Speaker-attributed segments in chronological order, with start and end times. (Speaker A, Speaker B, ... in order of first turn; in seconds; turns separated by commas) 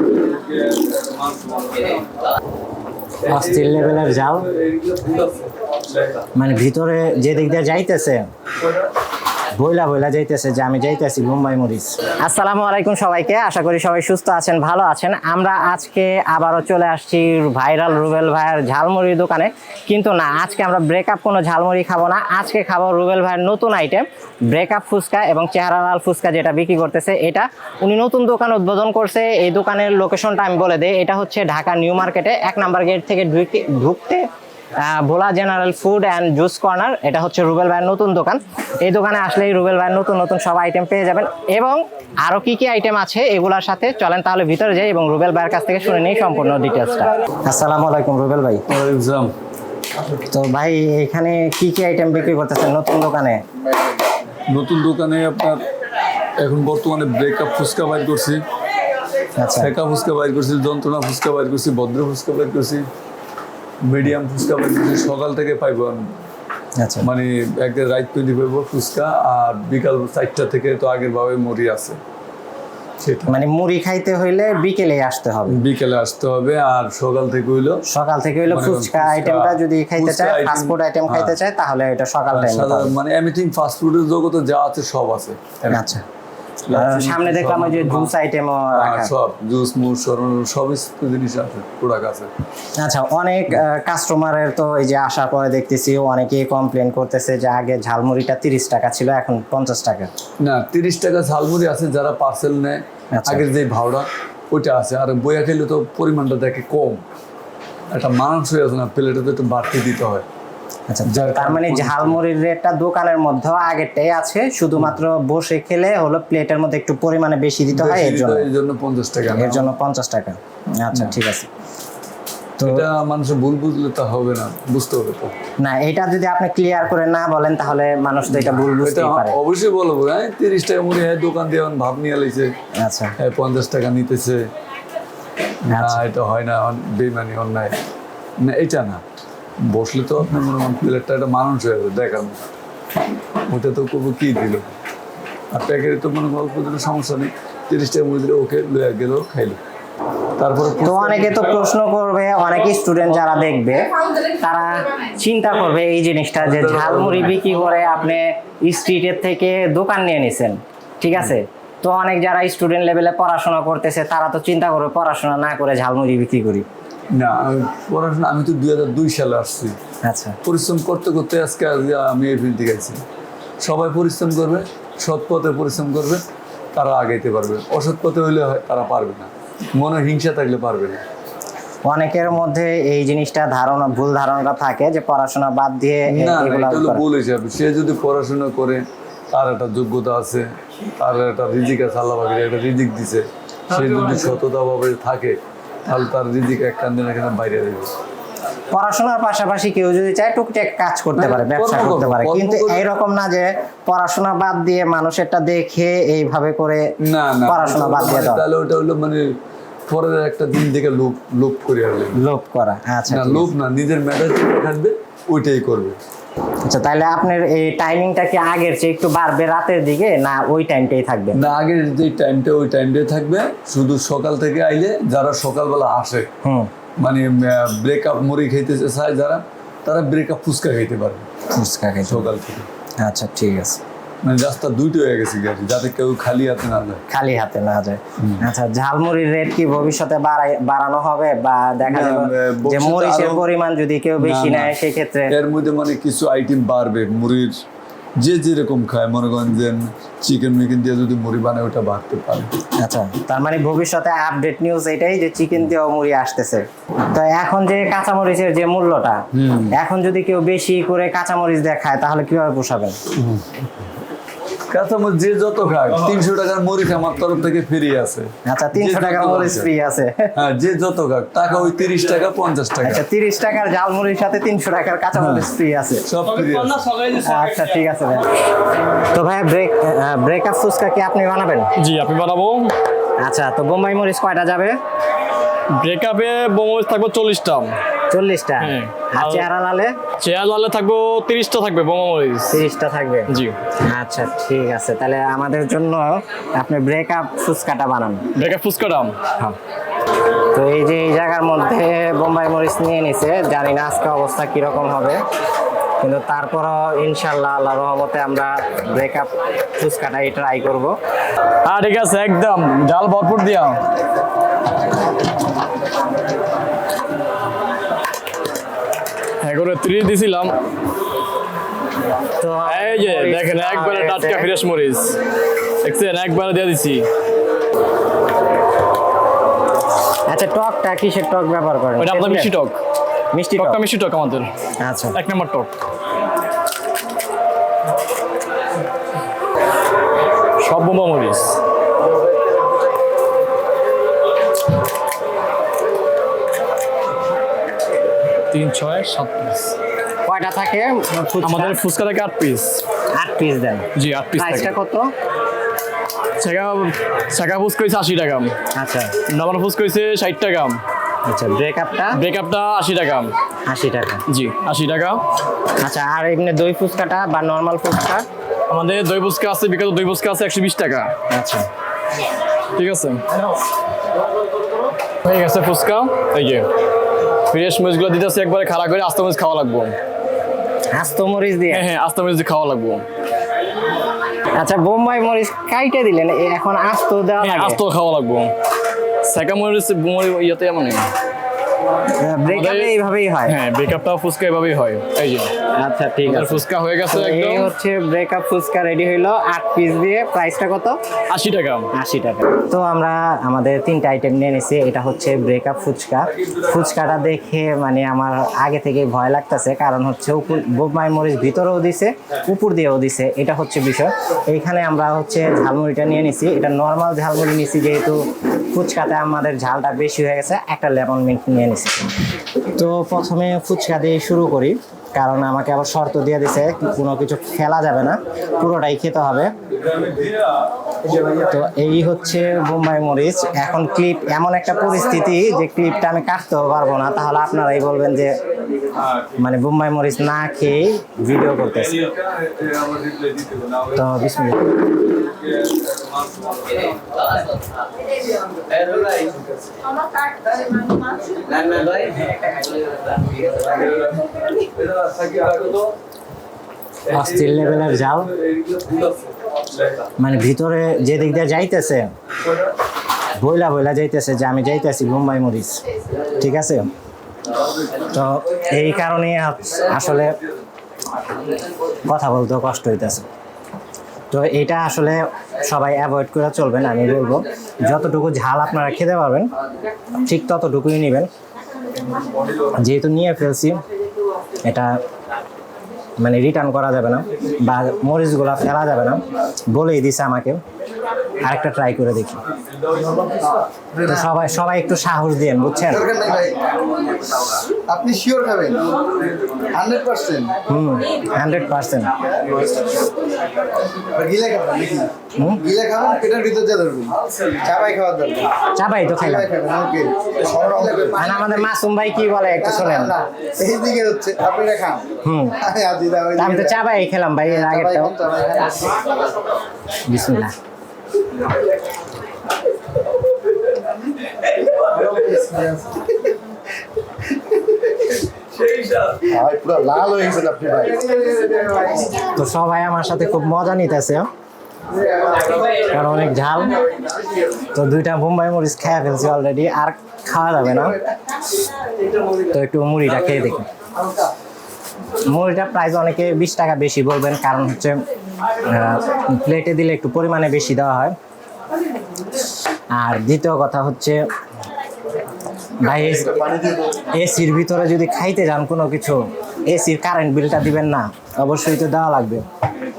Speaker A: 0.1-2.1, Speaker A: 3.2-6.3, Speaker B: 3.2-4.5, Speaker B: 6.3-8.2, Speaker A: 8.6-8.9, Speaker B: 9.6-34.2, Speaker B: 34.8-48.6, Speaker A: 48.7-49.3, Speaker B: 50.3-53.4, Speaker A: 54.5-55.6, Speaker A: 56.4-58.4, Speaker B: 59.4-59.7, Speaker A: 59.6-62.9, Speaker A: 63.8-66.1, Speaker B: 66.8-67.1, Speaker A: 67.0-72.0, Speaker A: 73.0-73.3, Speaker B: 73.3-75.6, Speaker A: 75.5-77.8, Speaker B: 77.9-82.9, Speaker A: 78.5-81.4, Speaker A: 82.3-85.9, Speaker B: 85.7-86.0, Speaker A: 86.7-88.1, Speaker B: 86.7-89.1, Speaker A: 88.7-92.3, Speaker B: 92.8-100.1, Speaker A: 100.4-107.0, Speaker B: 103.1-103.5, Speaker A: 107.9-110.3, Speaker B: 110.9-118.5, Speaker A: 111.1-112.2, Speaker A: 117.7-119.7, Speaker B: 119.3-121.5, Speaker A: 120.9-121.2, Speaker B: 122.6-122.8, Speaker A: 122.6-125.4, Speaker B: 125.6-129.3, Speaker A: 128.3-132.5, Speaker B: 132.8-133.1, Speaker A: 133.2-134.4, Speaker A: 135.7-137.8, Speaker B: 135.7-136.0, Speaker A: 138.4-139.0, Speaker A: 139.7-142.4, Speaker A: 143.5-144.8, Speaker A: 145.5-149.6, Speaker A: 150.4-151.6, Speaker B: 150.8-166.7, Speaker A: 156.4-157.4, Speaker A: 167.1-169.8, Speaker B: 170.0-170.4, Speaker A: 170.4-173.0, Speaker A: 173.6-176.2, Speaker A: 176.8-181.0, Speaker B: 181.8-187.0, Speaker A: 186.1-190.4, Speaker A: 191.0-197.9, Speaker B: 198.7-206.8, Speaker A: 201.1-202.9, Speaker A: 207.0-209.3, Speaker B: 207.4-208.4, Speaker A: 209.9-212.2, Speaker B: 212.2-213.5, Speaker A: 213.1-216.0, Speaker B: 216.6-221.4, Speaker A: 221.3-226.3, Speaker B: 226.4-226.7, Speaker A: 227.0-231.3, Speaker B: 231.5-232.3, Speaker A: 232.1-232.7, Speaker B: 233.0-233.8, Speaker A: 234.2-237.0, Speaker B: 237.1-245.3, Speaker A: 238.2-238.4, Speaker A: 241.8-243.5, Speaker A: 244.2-247.6, Speaker A: 248.2-252.5, Speaker B: 252.8-263.0, Speaker A: 259.3-259.7, Speaker A: 263.1-263.5, Speaker A: 264.7-269.7, Speaker B: 268.4-270.3, Speaker A: 270.3-273.0, Speaker B: 272.8-276.1, Speaker A: 276.1-276.9, Speaker C: 276.3-277.6, Speaker B: 277.2-278.3, Speaker B: 279.1-281.7, Speaker C: 281.8-282.8, Speaker B: 283.2-284.8, Speaker C: 285.7-287.8, Speaker B: 288.1-289.9, Speaker C: 288.6-289.5, Speaker C: 290.2-292.6, Speaker B: 292.5-293.3, Speaker C: 293.3-293.6, Speaker B: 293.8-298.3, Speaker C: 298.3-299.1, Speaker B: 300.5-305.2, Speaker B: 306.0-310.9, Speaker C: 311.6-313.8, Speaker C: 319.4-320.6, Speaker B: 322.4-324.5, Speaker C: 322.6-325.2, Speaker C: 325.8-327.1, Speaker B: 330.3-332.5, Speaker C: 332.0-332.8, Speaker B: 333.3-333.8, Speaker C: 333.6-334.5, Speaker B: 334.8-335.2, Speaker C: 335.1-335.7, Speaker C: 340.6-341.6, Speaker C: 348.5-349.7, Speaker B: 350.2-351.8, Speaker C: 351.4-352.8, Speaker B: 353.1-355.1, Speaker C: 353.9-354.7, Speaker C: 356.4-358.6, Speaker B: 358.8-359.2, Speaker C: 359.3-360.8, Speaker B: 361.3-362.2, Speaker C: 362.1-363.3, Speaker B: 363.7-364.2, Speaker C: 364.3-365.2, Speaker B: 365.8-368.2, Speaker C: 368.7-371.1, Speaker B: 371.3-371.7, Speaker C: 372.8-373.2, Speaker C: 375.2-376.7, Speaker C: 377.5-379.9, Speaker B: 380.9-381.8, Speaker C: 381.7-383.0, Speaker B: 384.6-387.8, Speaker C: 387.4-388.5, Speaker C: 389.2-391.1, Speaker B: 392.1-393.6, Speaker C: 392.4-392.9, Speaker C: 393.4-395.5, Speaker B: 395.8-401.0, Speaker C: 396.2-397.7, Speaker C: 401.3-401.9, Speaker B: 401.9-421.9, Speaker B: 422.8-429.5, Speaker A: 429.7-431.4, Speaker B: 431.4-438.4, Speaker A: 438.9-439.4, Speaker B: 439.4-442.0, Speaker A: 441.7-444.1, Speaker B: 443.9-444.6, Speaker A: 445.3-447.0, Speaker A: 448.7-449.4, Speaker A: 451.4-452.3, Speaker A: 453.4-455.9, Speaker A: 457.1-460.1, Speaker B: 457.1-458.3, Speaker B: 460.2-462.1, Speaker A: 462.4-462.7, Speaker B: 463.3-466.9, Speaker B: 468.0-470.4, Speaker B: 472.1-473.2, Speaker B: 474.3-479.5, Speaker B: 480.2-481.3, Speaker A: 482.2-482.6, Speaker B: 482.8-483.8, Speaker B: 484.6-485.0, Speaker B: 486.2-490.6, Speaker B: 491.4-492.4, Speaker D: 493.3-494.4, Speaker B: 494.0-496.1, Speaker D: 495.9-496.6, Speaker D: 497.8-498.9, Speaker D: 499.7-500.6, Speaker B: 500.7-502.1, Speaker D: 502.4-503.0, Speaker D: 504.0-508.6, Speaker B: 505.3-505.6, Speaker B: 508.7-509.5, Speaker D: 509.1-511.7, Speaker B: 511.1-513.2, Speaker D: 512.6-516.9, Speaker B: 515.2-515.6, Speaker B: 516.4-518.1, Speaker D: 517.4-519.4, Speaker B: 520.1-520.5, Speaker D: 524.9-526.0, Speaker A: 528.4-529.3, Speaker D: 529.3-532.1, Speaker B: 532.1-534.3, Speaker D: 535.0-535.4, Speaker B: 535.7-536.8, Speaker B: 537.7-541.0, Speaker B: 542.5-543.7, Speaker B: 545.2-548.0, Speaker B: 548.6-551.1, Speaker B: 552.9-554.2, Speaker B: 555.8-556.4, Speaker D: 555.9-557.0, Speaker B: 557.1-562.4